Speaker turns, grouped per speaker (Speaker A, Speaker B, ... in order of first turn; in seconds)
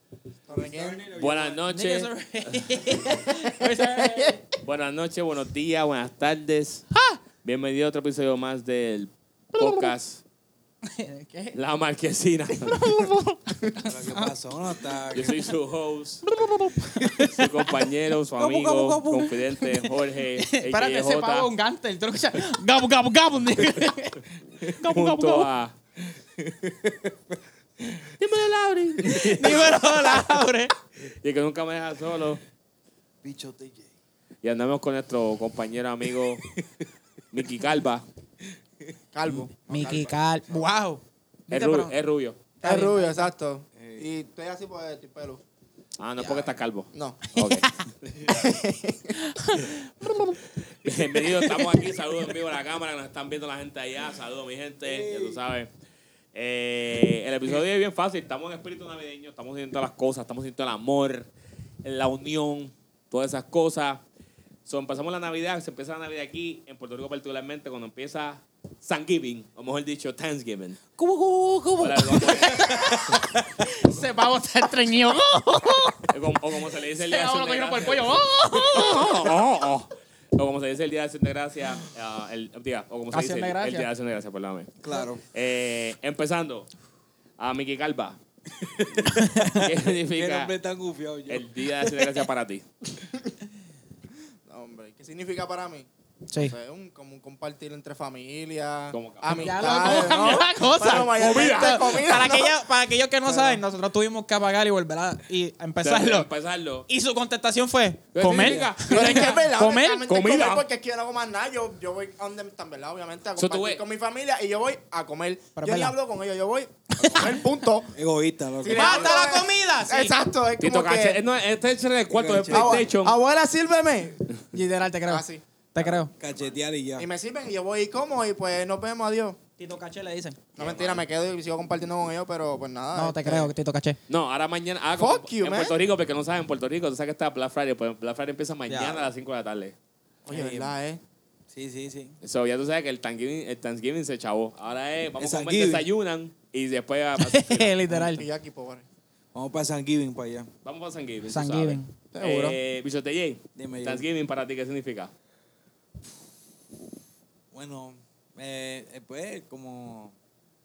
Speaker A: 0.5-1.1, 3.3-4.4, 39.1-40.1, 42.6-45.4, 46.2-47.2, 48.3-49.2, 94.5-102.6, 108.9-117.9, 118.6-121.2, 122.5-124.2, 125.1-125.4, 127.0-129.4, 130.6-133.5, 135.0-135.8, 140.3-141.0, 148.0-148.8, 152.1-152.6
Speaker B: 0.5-1.6, 13.8-15.4, 26.4-27.2, 33.2-33.9, 36.5-36.8, 43.8-44.0, 48.2-48.4, 54.8-55.4, 84.8-85.2, 88.5-91.5, 103.3-103.6, 108.4-108.7, 118.0-119.2, 122.1-122.9, 125.8-127.1, 138.7-139.1, 140.3-140.7, 141.5-142.1, 145.2-145.9, 149.3-150.5, 153.6-154.0, 157.5-160.1
Speaker C: 1.2-2.7, 4.6-6.9, 7.4-10.2, 11.6-12.8, 15.1-16.2, 17.1-21.5, 24.8-25.7, 28.0-30.2, 31.1-32.4, 34.4-36.4, 37.3-38.0, 41.5-42.4, 46.0-47.8, 50.8-55.7, 56.3-61.3, 61.8-64.0, 64.7-70.8, 71.8-72.8, 76.1-84.7, 85.3-86.7, 87.4-88.2, 89.6-90.5, 91.3-92.7, 98.9-100.3, 101.2-101.8, 105.8-106.9, 108.2-109.5, 110.1-110.6, 113.4-113.8, 120.6-123.2, 130.6-131.0, 134.1-139.8, 142.2-147.7, 150.6-155.1
Speaker D: 1.7-4.4, 6.9-7.2, 9.6-9.9, 10.8-11.6, 12.6-14.3, 16.3-17.6, 18.4-25.5, 29.0-30.7, 39.7-41.9, 42.6-43.3, 47.3-47.9, 49.1-50.4, 71.0-76.1, 76.9-79.3, 83.1-83.9, 89.1-89.6, 99.3-106.3, 106.9-110.0, 115.6-116.0, 117.0-117.4, 118.7-120.2, 124.5-126.1, 129.6-130.4, 132.9-134.0, 147.2-148.3, 151.3-151.9